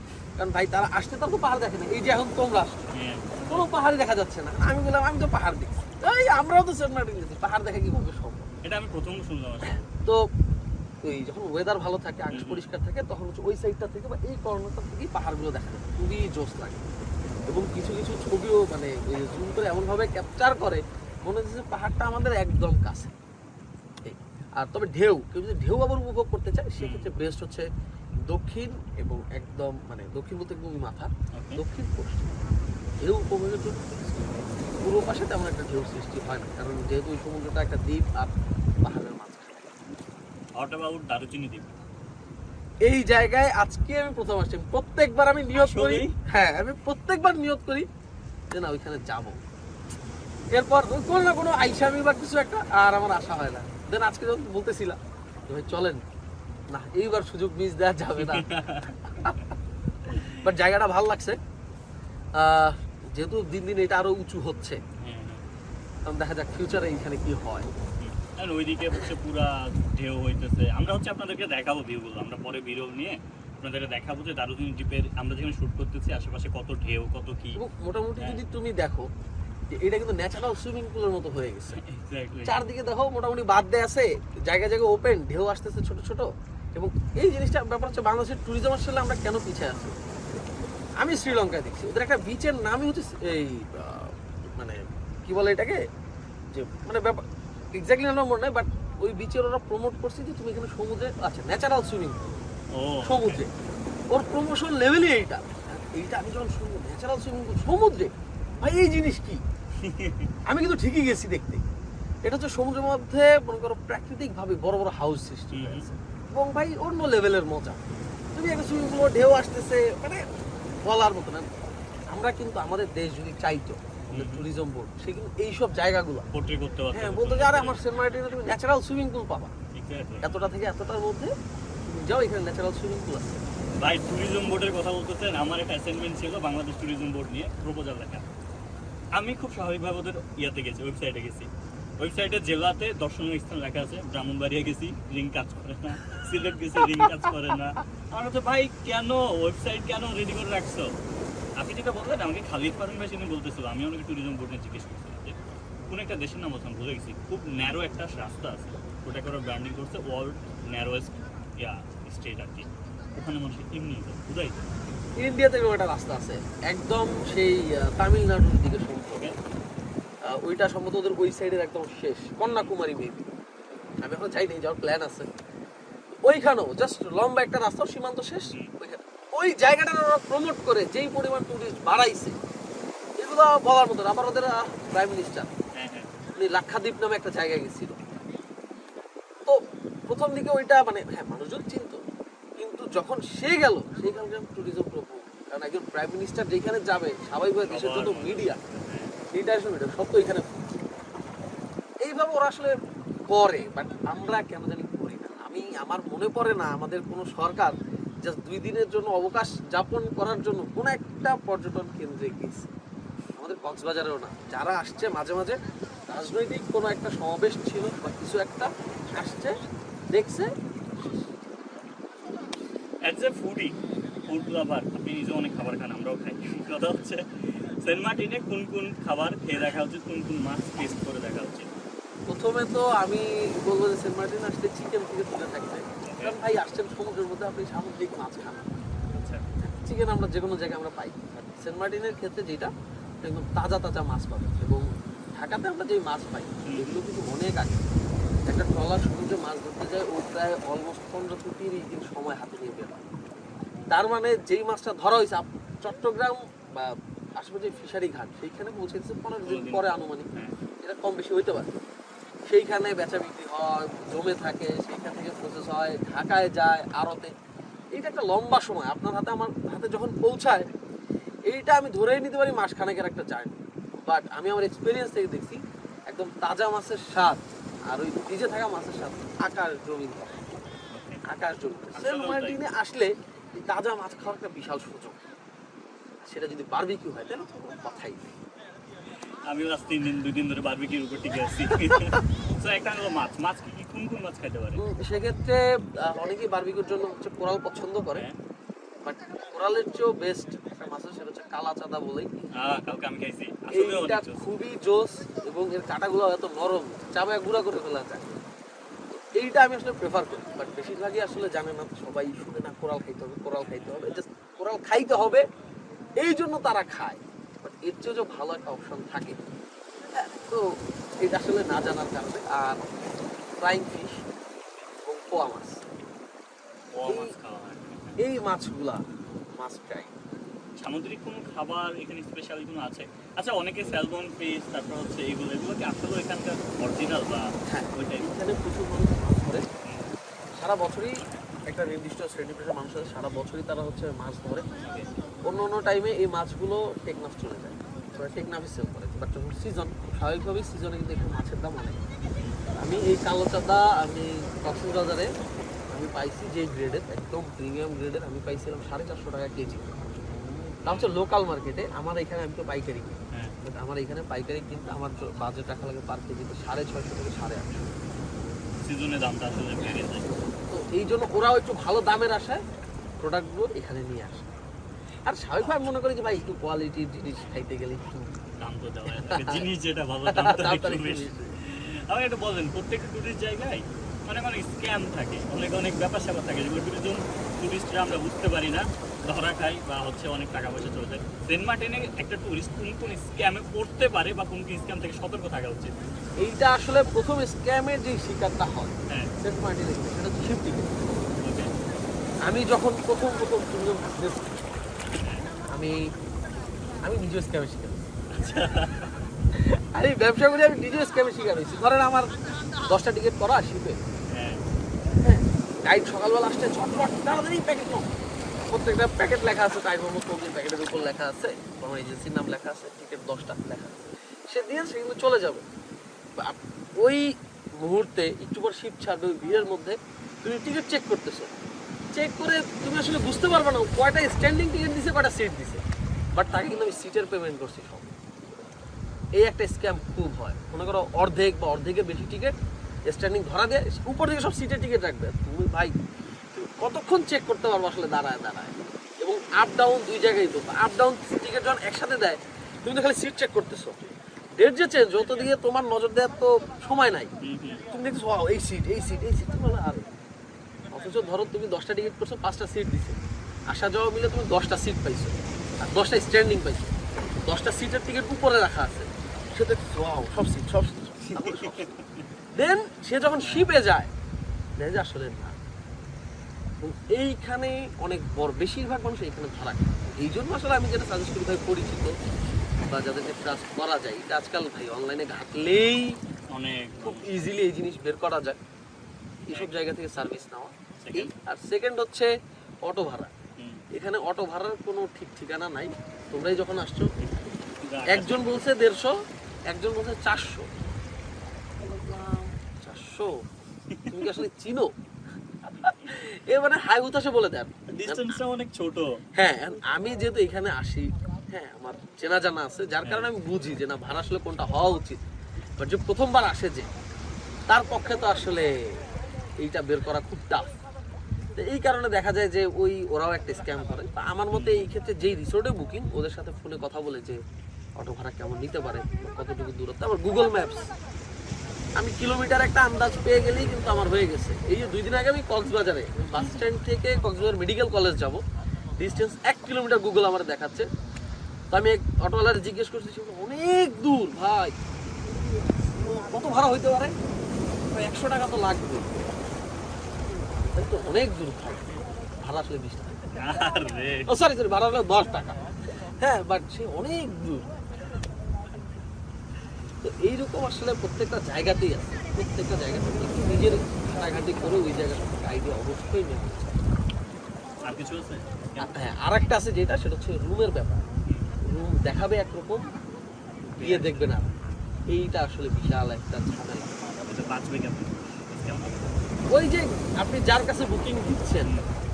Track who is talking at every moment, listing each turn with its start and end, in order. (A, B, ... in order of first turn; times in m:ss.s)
0:00.4-0:02.8 A
0:02.9-0:03.7 B
0:03.4-0:08.5 A
0:08.6-0:09.9 B
0:11.0-0:16.9 A
0:12.3-0:12.6 B
0:17.5-0:23.1 A
0:24.0-0:27.7 A
0:26.8-0:27.1 B
0:28.3-0:32.3 A
0:31.3-0:31.6 B
0:33.0-0:39.8 A
0:40.6-0:41.8 B
0:42.8-0:47.9 A
0:45.5-0:46.2 B
0:48.5-0:49.4 A
0:50.5-0:56.1 A
0:56.7-0:58.5 A
0:58.2-0:59.4 B
1:00.1-1:01.4 A
1:02.4-1:04.8 A
1:05.0-1:05.4 B
1:06.1-1:07.7 A
1:08.0-1:17.6 B
1:17.6-1:19.1 A
1:18.2-1:18.4 B
1:19.7-1:21.8 A
1:21.7-1:22.6 B
1:22.4-1:30.0 A
1:31.0-1:35.8 A
1:36.5-1:42.4 A
1:42.7-1:43.4 B
1:43.0-1:43.5 A
1:44.1-1:49.4 A
1:49.8-1:50.3 B
1:50.5-1:51.6 A
1:52.2-1:57.8 A
1:55.5-1:55.9 B
1:58.3-2:01.5 A
2:02.1-2:06.3 A
2:04.1-2:04.4 B
2:06.3-2:07.9 B
2:06.9-2:09.5 A
2:09.7-2:10.6 B
2:10.2-2:11.3 A
2:11.8-2:13.4 A
2:13.8-2:18.3 B
2:19.2-2:31.0 B
2:31.6-2:44.6 B
2:45.2-2:49.3 A
2:50.2-2:53.3 A
2:52.4-2:52.7 B
2:54.0-2:55.3 A
2:56.2-3:02.4 A
2:58.4-2:58.7 B
3:03.2-3:05.5 A
3:05.7-3:06.1 B
3:06.4-3:08.1 A
3:09.4-3:12.0 A
3:12.6-3:18.6 A
3:17.6-3:19.2 B
3:19.3-3:20.8 A
3:22.0-3:22.7 A
3:23.3-3:32.7 A
3:33.4-3:35.6 A
3:36.1-3:39.6 A
3:40.1-3:41.4 A
3:43.0-3:51.7 B
3:52.3-3:58.6 A
3:56.0-3:56.4 B
3:59.1-3:59.4 B
3:59.6-4:02.7 A
4:03.2-4:07.9 A
4:06.6-4:07.0 B
4:08.5-4:13.0 A
4:13.9-4:20.3 A
4:19.4-4:20.6 B
4:20.8-4:21.7 A
4:22.5-4:27.3 A
4:28.0-4:30.7 A
4:31.5-4:35.6 A
4:36.1-4:40.5 A
4:40.9-4:41.2 B
4:41.2-4:45.2 A
4:41.9-4:42.6 B
4:46.3-4:48.4 A
4:49.5-4:54.8 B
4:51.9-4:52.2 A
4:54.8-4:58.3 A
4:59.0-5:02.5 A
5:02.5-5:04.4 B
5:03.7-5:08.4 A
5:09.1-5:15.5 A
5:13.6-5:14.1 B
5:16.2-5:19.4 A
5:20.1-5:22.9 A
5:23.6-5:24.2 A
5:25.0-5:25.8 A
5:26.9-5:28.2 B
5:27.1-5:27.3 A
5:28.2-5:30.1 A
5:30.8-5:38.3 B
5:37.7-5:39.7 A
5:39.8-5:40.1 B
5:40.6-5:44.8 A
5:44.9-5:45.1 B
5:45.4-5:52.0 A
5:52.4-5:52.7 B
5:52.8-5:55.3 A
5:55.9-6:00.1 A
6:00.8-6:08.0 A
6:00.8-6:01.1 B
6:03.3-6:03.6 B
6:08.8-6:10.4 B
6:10.7-6:12.6 A
6:13.2-6:14.6 A
6:15.3-6:18.4 A
6:18.6-6:36.0 B
6:19.1-6:19.7 A
6:20.3-6:21.6 A
6:36.4-6:41.3 A
6:41.4-6:41.7 B
6:42.4-6:44.8 A
6:45.2-6:45.5 B
6:45.7-6:46.0 A
6:47.0-6:48.1 A
6:48.3-6:49.3 B
6:49.5-6:54.0 A
6:54.3-6:54.6 B
6:55.2-6:58.1 A
6:58.7-7:05.6 A
7:06.4-7:11.5 A
7:12.1-7:15.8 A
7:16.3-7:18.1 A
7:16.5-7:17.0 B
7:19.4-7:22.6 A
7:23.1-7:26.0 A
7:26.5-7:34.0 A
7:34.6-7:37.3 A
7:37.4-7:37.9 B
7:37.9-7:40.1 A
7:40.9-7:43.2 A
7:43.7-7:46.9 A
7:47.5-7:51.9 A
7:51.4-7:52.3 B
7:52.6-7:54.1 A
7:53.4-7:53.7 B
7:54.8-7:55.6 A
7:56.8-8:02.1 A
8:02.9-8:06.2 A
8:06.5-8:07.4 B
8:07.0-8:08.6 A
8:09.5-8:12.3 A
8:09.5-8:09.8 B
8:11.0-8:11.3 B
8:12.8-8:13.3 A
8:13.6-8:13.8 B
8:13.9-8:17.1 A
8:17.8-8:18.7 B
8:18.1-8:19.2 A
8:19.7-8:20.7 A
8:21.8-8:23.4 A
8:23.9-8:24.4 B
8:24.1-8:24.9 A
8:25.6-8:28.4 A
8:25.8-8:26.1 B
8:27.9-8:29.2 B
8:29.4-8:35.2 A
8:33.0-8:33.3 B
8:35.8-8:36.9 A
8:37.7-8:40.8 A
8:41.6-8:47.4 A
8:44.5-8:44.9 B
8:48.0-8:50.9 A
8:52.0-8:58.4 A
8:59.0-9:00.9 A
9:01.7-9:04.7 A
9:05.9-9:07.2 A
9:07.8-9:09.3 A
9:10.6-9:13.4 A
9:13.4-9:14.3 B
9:14.3-9:17.7 A
9:20.0-9:26.8 A
9:27.8-9:29.0 B
9:28.8-9:31.0 A
9:31.3-9:31.5 B
9:31.6-9:32.8 A
9:33.7-9:34.6 B
9:33.8-9:34.5 A
9:35.1-9:37.0 A
9:37.2-9:39.2 B
9:39.5-9:41.7 A
9:41.6-9:41.9 B